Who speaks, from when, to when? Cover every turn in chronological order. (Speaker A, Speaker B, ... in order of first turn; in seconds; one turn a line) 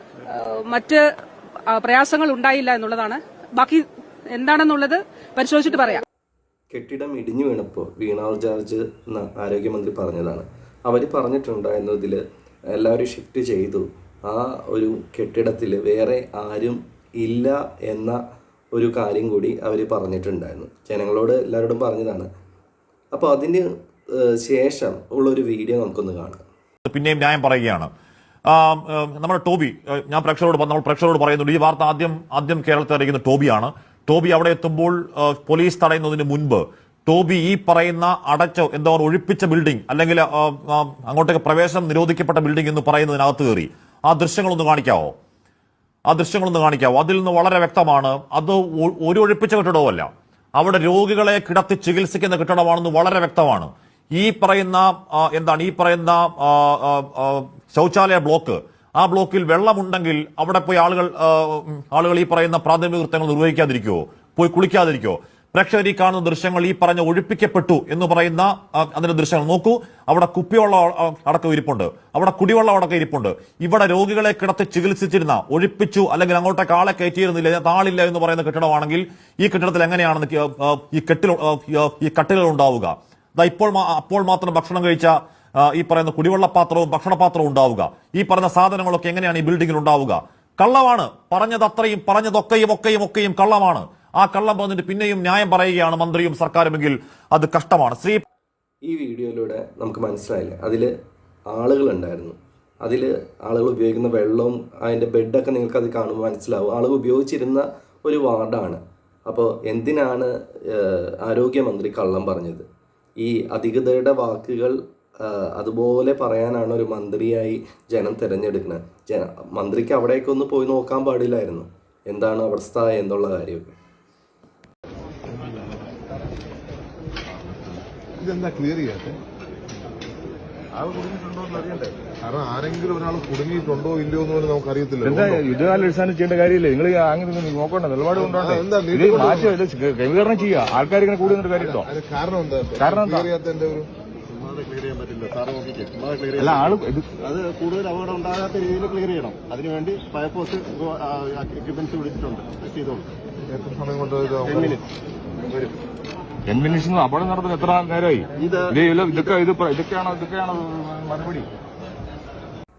Speaker A: 0.3-1.0
Speaker A: 1.7-6.0
Speaker B: 6.7-12.2
Speaker B: 12.7-18.2
Speaker B: 18.8-22.3
Speaker B: 23.1-26.4
Speaker C: 26.9-27.9
Speaker C: 28.5-45.1
Speaker C: 46.1-98.2
Speaker B: 98.9-100.9
Speaker B: 101.5-112.7
Speaker B: 113.2-123.7
Speaker D: 125.3-125.6
Speaker D: 127.7-129.2
Speaker D: 131.5-135.4
Speaker E: 135.0-141.9
Speaker D: 138.2-139.6
Speaker D: 141.6-143.9
Speaker E: 142.8-143.3
Speaker F: 144.3-146.7
Speaker E: 146.4-147.1
Speaker F: 147.3-153.1
Speaker D: 153.5-154.8
Speaker F: 154.5-154.8
Speaker E: 156.5-161.5